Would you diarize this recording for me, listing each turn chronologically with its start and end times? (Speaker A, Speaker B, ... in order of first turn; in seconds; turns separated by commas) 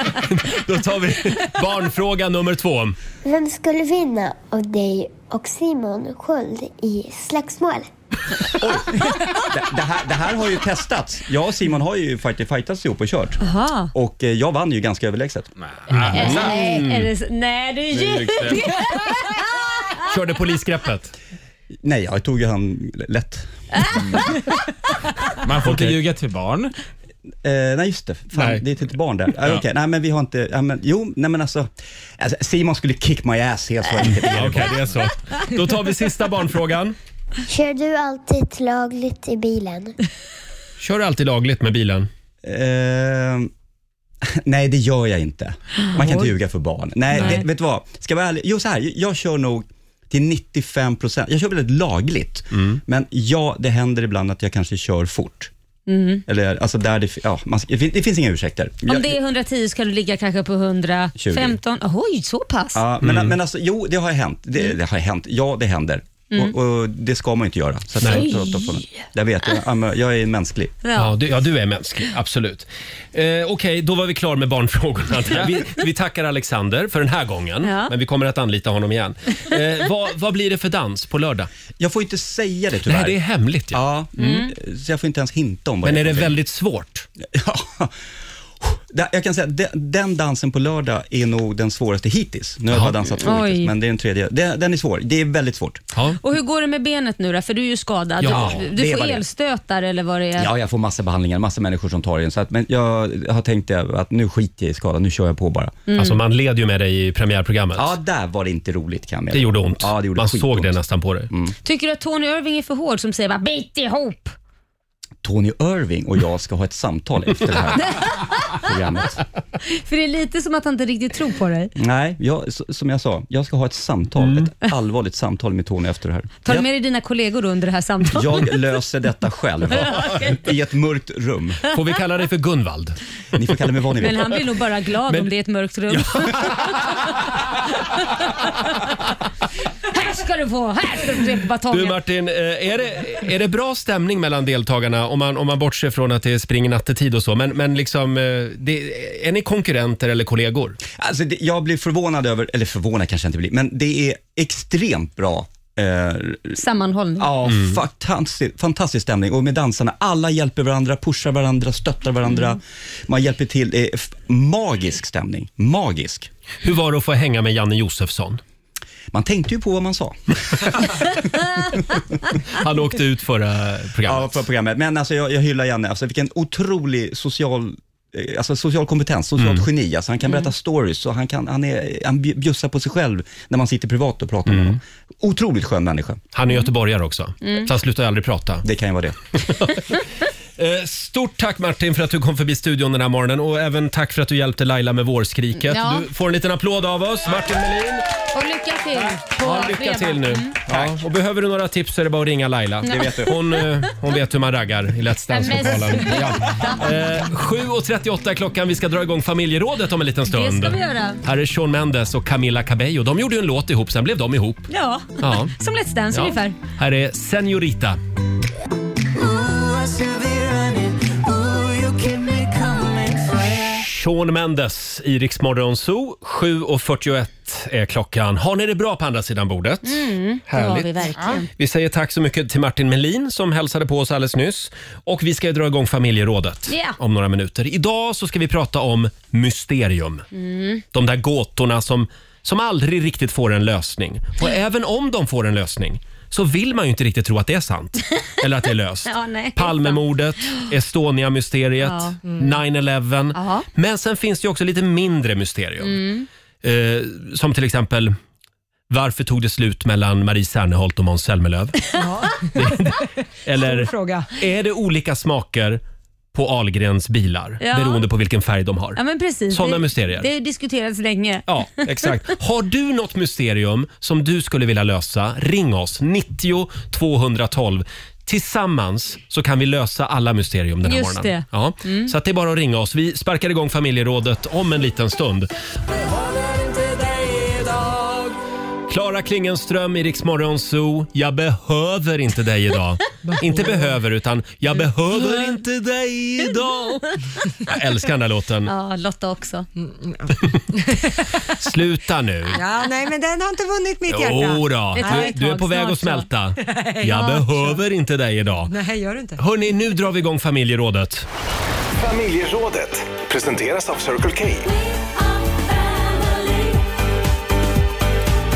Speaker A: 0.2-3.0, Speaker B: 3.2-7.9, Speaker C: 8.5-13.4, Speaker D: 13.4-13.9, Speaker C: 13.9-15.5, Speaker E: 15.7-16.6, Speaker A: 15.9-17.1, Speaker D: 16.1-19.6, Speaker E: 17.9-18.6, Speaker A: 20.0-21.1, Speaker C: 21.8-23.9, Speaker E: 25.4-26.7, Speaker A: 25.6-26.0, Speaker C: 27.4-34.8, Speaker A: 28.3-28.6, Speaker A: 34.0-37.0, Speaker B: 37.5-40.0, Speaker A: 40.8-42.1, Speaker C: 42.4-43.5, Speaker C: 44.2-55.5, Speaker D: 45.8-46.3, Speaker D: 47.1-47.4, Speaker A: 52.5-52.8, Speaker D: 55.9-56.2, Speaker C: 56.3-59.1, Speaker D: 58.9-62.8, Speaker C: 61.1-61.6, Speaker C: 62.7-70.7, Speaker A: 63.0-63.4, Speaker A: 68.0-68.3, Speaker D: 68.0-68.7, Speaker D: 70.8-71.1, Speaker A: 70.9-81.5, Speaker D: 77.6-77.9, Speaker C: 81.8-83.2, Speaker A: 82.8-83.8, Speaker C: 83.7-86.3, Speaker D: 84.2-84.5, Speaker A: 85.8-87.1, Speaker C: 87.2-87.9, Speaker C: 88.6-95.8, Speaker A: 92.7-93.0, Speaker D: 93.2-93.7, Speaker A: 95.9-96.2, Speaker D: 96.2-100.5, Speaker A: 98.2-98.6, Speaker C: 98.2-99.2, Speaker C: 100.4-105.8, Speaker D: 105.9-106.2, Speaker A: 106.0-108.0, Speaker C: 107.8-110.8, Speaker A: 109.3-111.3, Speaker D: 111.6-114.3, Speaker C: 115.2-119.2, Speaker D: 117.9-118.6, Speaker D: 119.7-121.7, Speaker C: 121.8-126.7, Speaker A: 124.2-124.5, Speaker D: 126.4-128.5, Speaker C: 128.1-131.7, Speaker D: 129.7-130.4, Speaker A: 131.7-133.0, Speaker C: 133.3-134.4, Speaker D: 134.0-137.1, Speaker A: 135.9-136.9, Speaker D: 137.8-138.9, Speaker D: 139.8-142.0, Speaker A: 141.7-150.8, Speaker C: 151.0-156.6, Speaker D: 156.6-157.3, Speaker C: 157.2-166.3, Speaker A: 157.5-157.8, Speaker A: 166.6-168.4, Speaker C: 169.1-172.2, Speaker A: 172.5-174.4, Speaker C: 174.0-186.2, Speaker A: 179.4-179.7, Speaker A: 184.5-184.8, Speaker A: 186.3-188.7, Speaker D: 187.4-187.7, Speaker C: 188.6-189.2, Speaker A: 189.3-190.0, Speaker A: 190.6-198.0, Speaker D: 195.6-196.1, Speaker D: 198.3-200.6, Speaker A: 198.9-214.7, Speaker D: 202.8-203.5, Speaker C: 202.9-203.3, Speaker D: 205.3-206.9, Speaker D: 210.3-211.2, Speaker D: 214.7-216.6, Speaker A: 215.2-215.5, Speaker A: 216.1-218.0, Speaker A: 223.7-240.2, Speaker D: 229.8-231.5, Speaker D: 236.7-237.0, Speaker D: 240.3-240.8, Speaker A: 240.9-256.0, Speaker D: 249.1-250.7, Speaker D: 251.8-252.2, Speaker F: 252.2-252.5, Speaker D: 253.3-253.7, Speaker D: 255.8-256.3, Speaker A: 256.6-258.1, Speaker A: 258.9-261.8, Speaker F: 261.9-264.3, Speaker A: 262.5-265.8, Speaker A: 266.3-269.0, Speaker D: 267.6-268.0, Speaker D: 268.9-272.1, Speaker A: 269.5-270.3, Speaker A: 271.5-285.5, Speaker D: 280.8-282.1, Speaker A: 286.1-288.1, Speaker A: 288.9-298.7, Speaker F: 293.2-293.9, Speaker D: 298.6-299.7, Speaker F: 299.8-301.5, Speaker A: 301.5-302.6, Speaker F: 302.5-305.4, Speaker A: 304.1-308.7, Speaker D: 305.0-306.3, Speaker F: 306.6-307.8, Speaker D: 307.0-307.4, Speaker F: 308.7-309.4, Speaker A: 309.4-311.3, Speaker G: 312.2-314.5